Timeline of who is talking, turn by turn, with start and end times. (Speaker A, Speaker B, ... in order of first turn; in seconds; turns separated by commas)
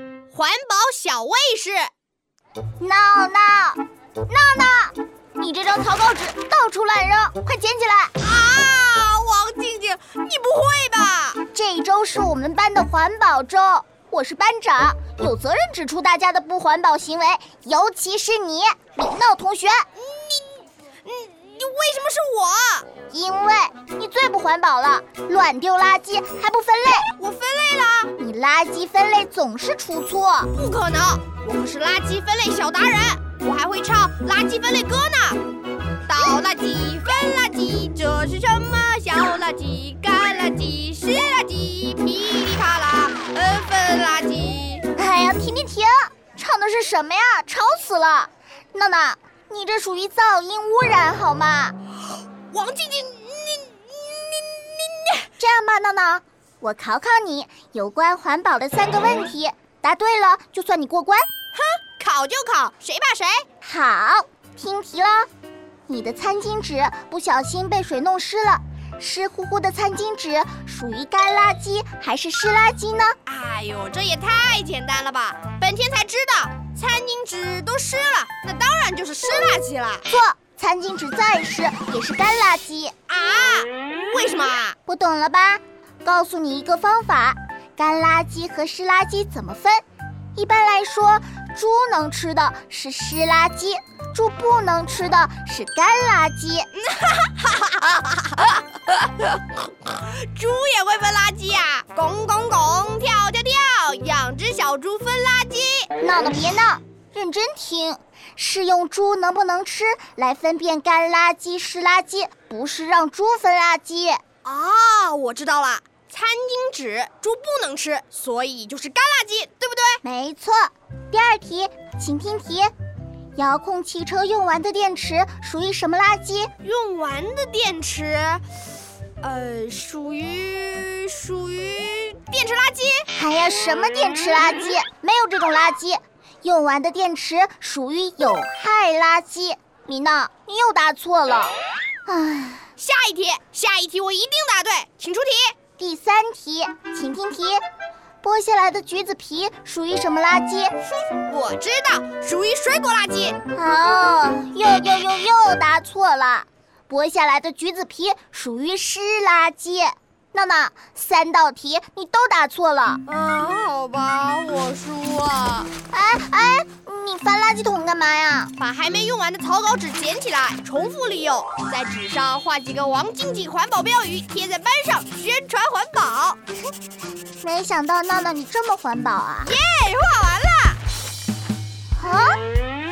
Speaker A: 0.3-1.9, Speaker B: 2.8-8.1, Speaker A: 8.2-11.4, Speaker B: 11.5-19.8, Speaker A: 20.0-22.9, Speaker B: 23.1-27.1, Speaker A: 27.2-28.1, Speaker B: 28.2-30.5, Speaker A: 30.5-35.4, Speaker A: 36.0-44.9, Speaker B: 44.9-51.8, Speaker A: 52.5-55.3, Speaker B: 55.4-61.3, Speaker A: 61.5-63.5, Speaker B: 63.6-65.3, Speaker B: 65.9-73.2, Speaker A: 73.2-80.1, Speaker B: 80.1-82.9, Speaker A: 83.1-84.8, Speaker B: 84.9-89.8, Speaker B: 90.3-96.7, Speaker A: 96.8-105.9, Speaker B: 106.0-114.2, Speaker A: 114.4-120.0, Speaker B: 120.0-122.7, Speaker B: 123.3-126.5, Speaker A: 126.6-128.4, Speaker A: 129.2-133.1, Speaker B: 133.1-141.5, Speaker B: 142.1-142.7, Speaker A: 142.8-145.6, Speaker B: 145.8-147.6, Speaker B: 148.2-150.7, Speaker A: 150.9-153.4, Speaker B: 153.5-163.0, Speaker A: 163.1-165.7, Speaker B: 165.9-168.5, Speaker A: 168.6-176.4, Speaker B: 177.4-179.6, Speaker A: 179.4-180.8, Speaker B: 181.9-182.4